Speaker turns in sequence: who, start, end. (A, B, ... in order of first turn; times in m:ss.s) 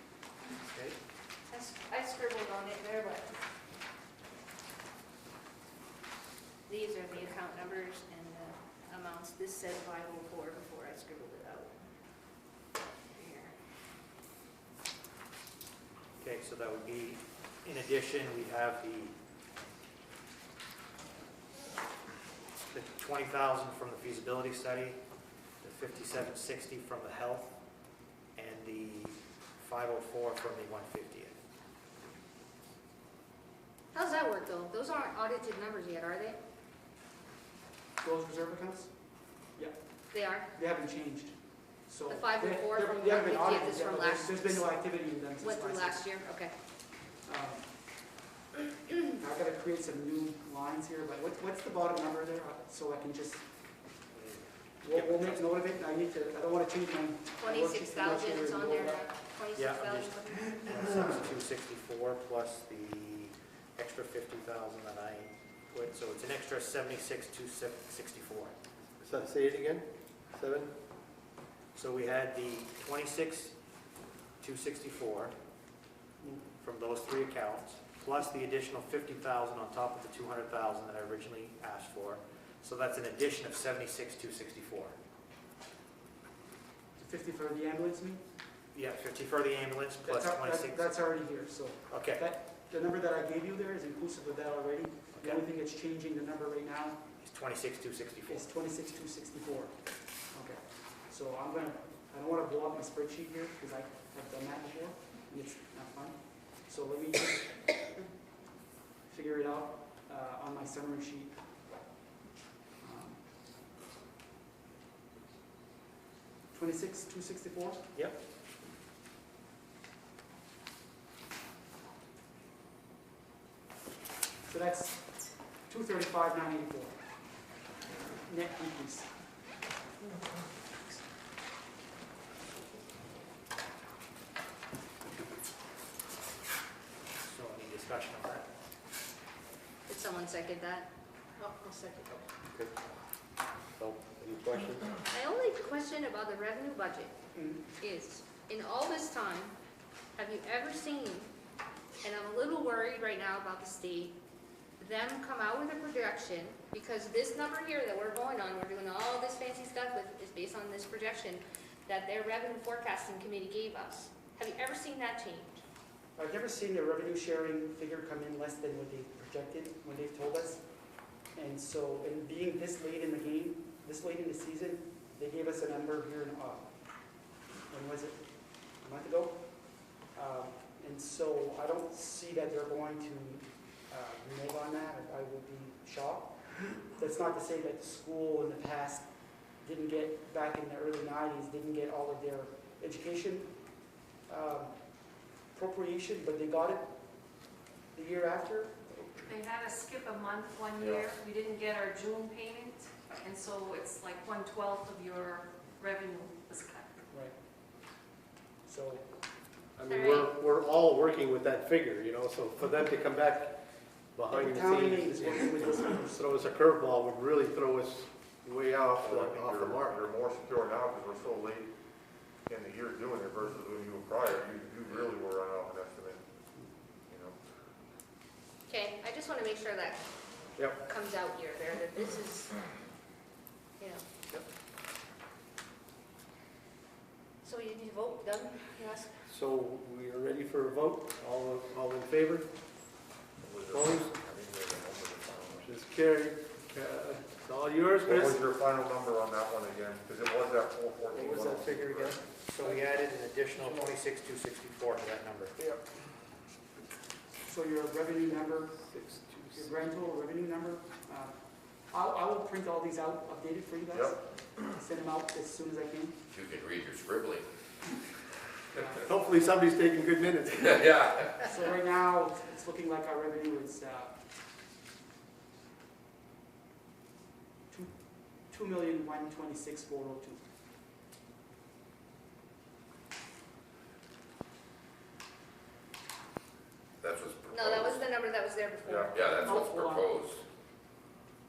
0:00.7-0:00.9 A
0:01.5-0:03.3 B
0:06.7-0:11.8 B
0:13.1-0:13.5 B
0:16.2-0:19.1 A
0:22.7-0:25.0 A
0:25.6-0:27.6 A
0:28.3-0:31.4 A
0:33.9-0:36.4 B
0:38.0-0:38.9 C
0:40.1-0:40.5 B
0:40.5-0:41.3 C
0:41.9-0:46.0 C
0:42.1-0:44.7 B
0:45.4-0:46.5 B
0:47.2-0:47.6 C
0:49.1-0:53.4 C
0:54.1-0:55.4 A
0:54.8-0:59.1 C
0:57.4-1:00.7 B
0:59.5-1:08.5 A
1:09.0-1:10.7 D
1:11.7-1:13.5 A
1:14.4-1:15.3 A
1:16.6-1:25.0 A
1:27.0-1:28.2 C
1:28.7-1:30.9 A
1:30.0-1:37.0 C
1:31.9-1:32.2 A
1:35.1-1:35.4 A
1:37.2-1:38.5 A
1:38.3-1:39.7 C
1:40.3-1:47.5 C
1:49.1-1:51.3 C
1:52.8-1:53.2 C
1:56.5-1:57.8 C
2:04.4-2:06.9 C
2:08.1-2:09.1 C
2:17.2-2:18.5 A
2:19.9-2:22.2 B
2:23.8-2:24.8 D
2:25.1-2:27.1 B
2:27.3-2:27.6 C
2:27.8-2:29.5 B
2:30.2-2:31.3 B
2:32.0-2:34.2 B
2:34.8-2:45.6 B
2:46.2-2:50.6 C
2:51.3-2:56.7 C
2:57.7-2:58.2 C
2:58.8-2:59.4 C
3:00.1-3:09.1 C
3:09.6-3:13.5 C
3:14.3-3:14.8 C
3:15.5-3:16.9 C
3:17.9-3:19.3 C
3:19.3-3:27.0 E
3:20.8-3:21.1 F
3:28.6-3:29.0 C
3:29.8-3:33.6 D
3:29.9-3:30.3 B
3:34.1-3:40.0 D
3:34.3-3:36.2 C
3:39.0-3:41.7 F
3:42.5-3:46.2 F
3:47.1-3:47.4 F
3:48.7-3:50.0 B
3:50.8-3:52.5 B
3:53.8-3:54.0 B
3:57.4-3:59.1 B
3:59.3-4:02.5 D
4:03.4-4:05.7 F
4:03.7-4:04.2 D
4:05.6-4:08.4 D
4:08.0-4:12.2 F
4:11.1-4:12.2 D
4:12.5-4:15.6 A
4:13.6-4:13.9 C
4:17.4-4:18.8 C
4:18.8-4:19.7 D
4:19.5-4:21.3 C
4:21.9-4:26.2 C
4:26.3-4:27.5 G
4:29.0-4:31.1 D
4:30.7-4:31.4 G
4:31.4-4:34.1 C
4:38.5-4:40.4 C
4:47.0-4:48.0 G
4:47.5-4:49.7 B
4:48.8-4:49.2 F
4:49.1-4:50.4 G
4:49.4-4:50.1 C